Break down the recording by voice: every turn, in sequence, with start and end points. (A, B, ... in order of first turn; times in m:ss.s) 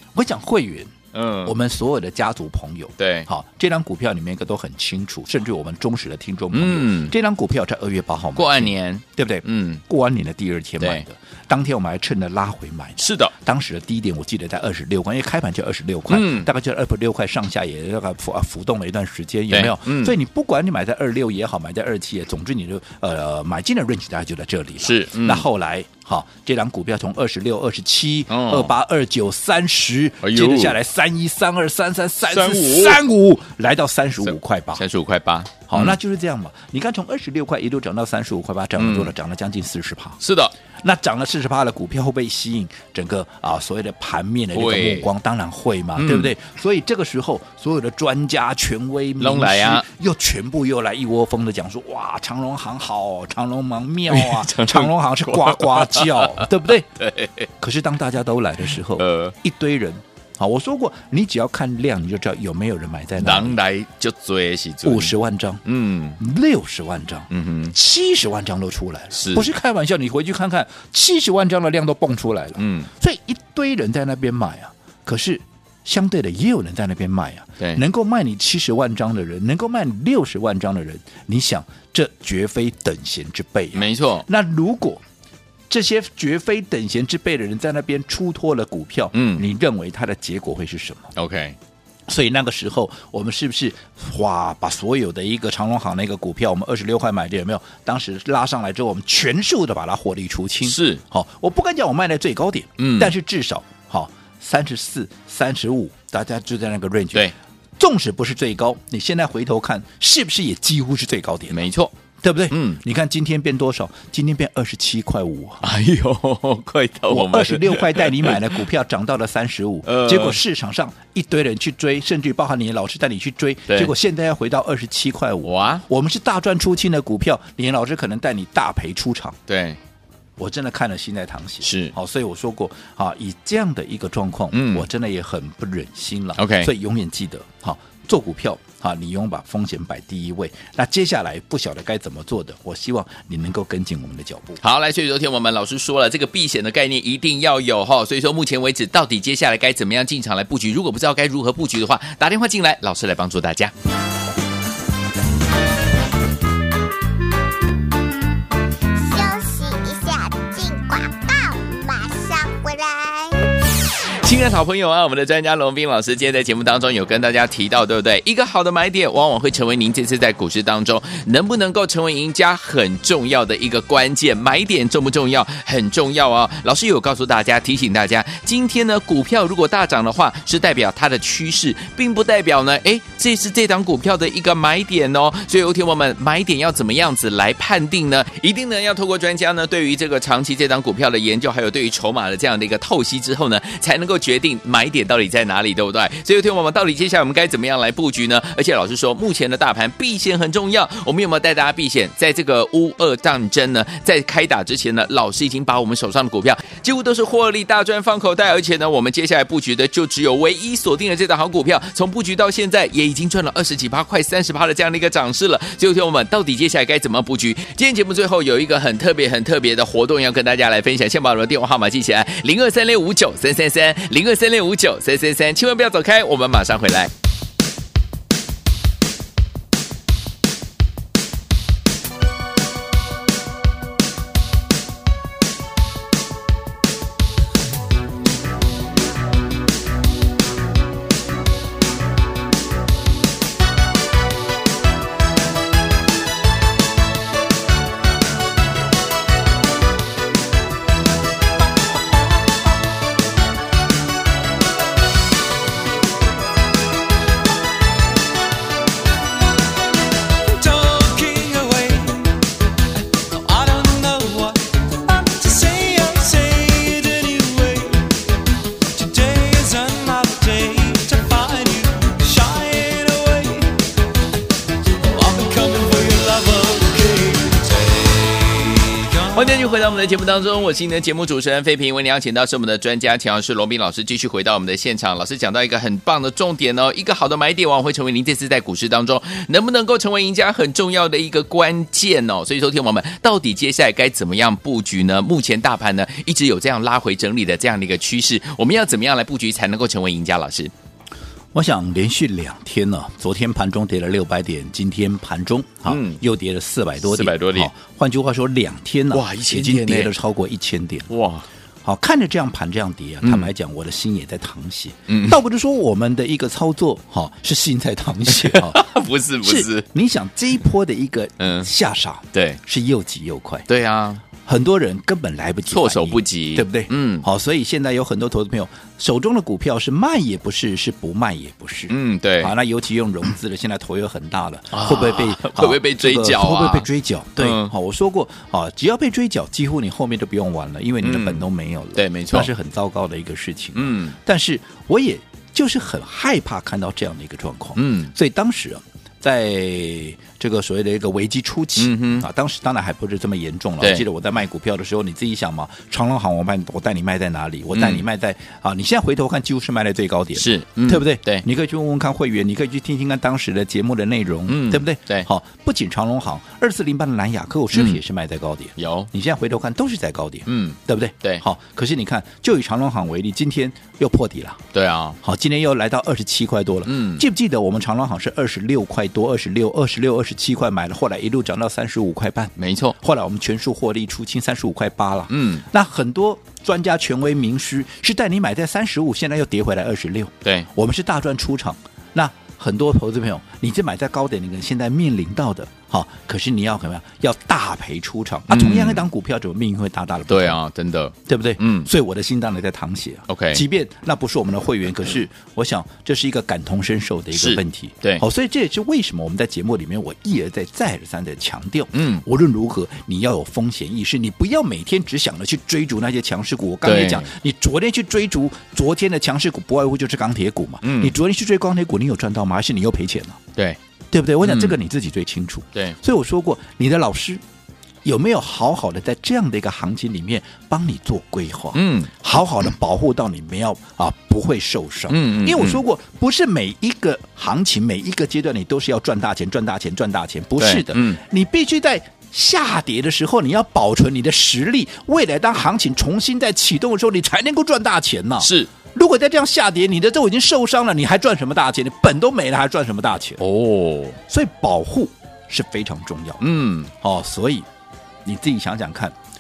0:00.1-0:00.9 A
0:01.1-0:01.5 B
0:01.4-0:34.8 A
0:03.0-0:03.3 B
0:06.5-0:07.1 B
0:08.3-0:09.8 B
0:13.0-0:13.3 B
0:16.1-0:16.5 B
0:19.5-0:20.2 B
0:24.8-0:25.5 B
0:28.3-0:28.7 B
0:30.2-0:30.8 B
0:32.3-0:33.0 B
0:34.2-0:36.0 B
0:35.7-0:40.2 A
0:38.8-0:39.1 B
0:40.2-0:40.5 B
0:40.8-0:56.9 A
0:44.5-0:45.1 B
0:46.0-0:46.3 B
0:49.2-0:49.8 B
0:54.1-0:57.5 B
0:57.6-1:03.6 A
0:59.0-0:59.3 B
1:03.2-1:06.2 B
1:04.8-1:05.6 A
1:06.2-1:25.0 A
1:07.3-1:07.7 B
1:09.1-1:09.5 B
1:12.6-1:12.9 B
1:23.7-1:24.3 B
1:25.7-1:31.1 A
1:29.1-1:29.4 B
1:31.2-1:31.6 B
1:32.1-1:51.6 A
1:40.6-1:41.0 B
1:42.8-1:43.1 B
1:51.5-1:51.9 B
1:52.2-1:55.6 A
1:52.5-1:52.8 B
1:55.6-1:58.6 B
1:57.1-2:09.4 A
1:59.8-2:00.4 B
2:03.7-2:03.9 B
2:05.4-2:05.8 B
2:09.5-2:09.8 B
2:10.4-2:24.6 A
2:11.6-2:11.9 B
2:14.5-2:14.9 B
2:16.4-2:16.7 B
2:24.6-2:33.7 B
2:38.9-2:43.5 C
2:44.2-3:47.1 B
4:20.4-4:22.5 D
4:23.0-4:28.2 D
4:28.9-4:33.8 D
4:35.0-4:39.5 D
4:39.3-5:00.7 B
5:01.5-5:11.1 A
5:05.8-5:06.2 B
5:07.0-5:07.7 B
5:09.1-5:10.1 B
5:11.1-5:11.5 B
5:11.8-5:18.8 A
5:13.2-5:13.5 B
5:15.1-5:15.4 B
5:18.3-5:19.8 B
5:19.4-5:23.7 A
5:21.4-5:21.7 B
5:22.3-5:22.6 B
5:23.7-5:24.2 B
5:24.4-6:14.6 A
5:25.7-5:27.3 B
5:31.9-5:32.5 B
5:34.7-5:37.7 B
5:41.0-5:42.5 B
5:43.7-5:44.2 B
5:47.8-5:48.1 B
5:51.8-5:52.2 B
5:53.8-5:54.0 B
5:57.7-5:58.0 B
6:00.3-6:01.4 B
6:04.4-6:05.3 B
6:07.7-6:08.0 B
6:08.8-6:09.1 B
6:10.5-6:11.4 B
6:14.7-6:15.2 B
6:15.2-6:40.6 A
6:16.8-6:17.2 B
6:22.6-6:23.0 B
6:25.3-6:25.6 B
6:38.5-6:39.1 B
6:40.3-6:41.9 B
6:41.3-7:03.4 A
6:43.3-6:43.6 B
6:47.3-6:48.2 B
6:51.9-6:52.2 B
6:56.8-6:57.3 B
7:00.8-7:01.2 B
7:04.1-7:07.4 A
7:04.4-7:04.8 B
7:08.0-7:33.4 A
7:11.7-7:12.1 B
7:15.1-7:15.8 B
7:20.6-7:21.2 B
7:28.4-7:28.7 B
7:33.4-7:34.2 B
7:34.3-7:37.7 A
7:36.4-7:36.9 B
7:38.2-7:39.1 A